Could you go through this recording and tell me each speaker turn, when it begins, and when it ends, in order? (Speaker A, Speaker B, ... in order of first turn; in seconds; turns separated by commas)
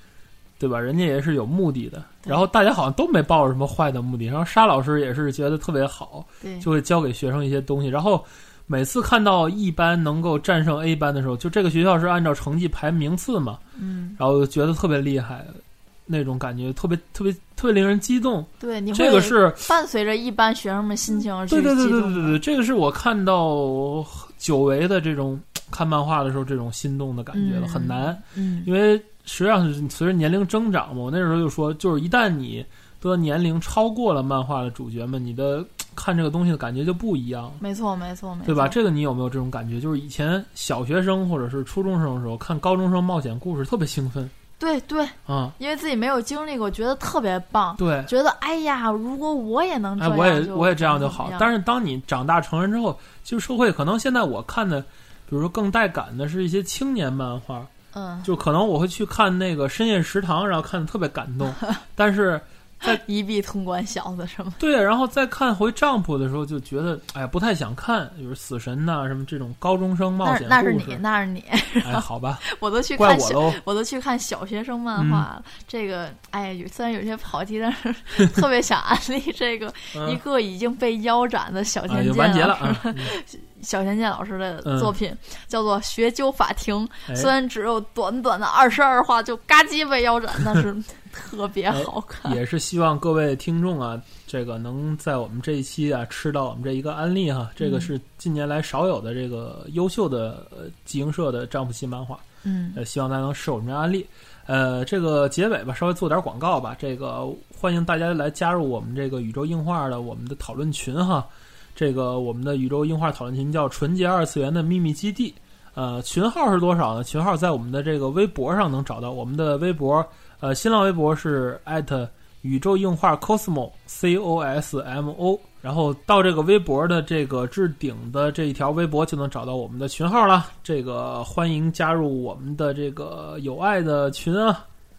Speaker A: 0.6-13.6, Speaker B: 6.4-6.7, Speaker B: 13.8-14.2, Speaker A: 14.2-19.7, Speaker B: 18.6-22.4, Speaker A: 21.5-37.6, Speaker B: 27.3-28.7, Speaker B: 37.6-38.8, Speaker A: 38.4-44.3, Speaker B: 44.6-51.5, Speaker A: 45.3-45.6, Speaker A: 47.8-48.1, Speaker A: 50.0-57.7, Speaker B: 57.9-58.3, Speaker A: 58.2-63.0, Speaker B: 62.8-64.6, Speaker A: 64.6-71.0, Speaker B: 70.2-92.4, Speaker A: 71.8-72.4, Speaker A: 73.0-73.6, Speaker A: 75.0-75.3, Speaker A: 79.9-80.2, Speaker A: 81.9-83.1, Speaker A: 84.6-84.9, Speaker A: 91.7-102.2, Speaker B: 97.6-97.9, Speaker B: 102.4-102.8, Speaker A: 102.8-134.6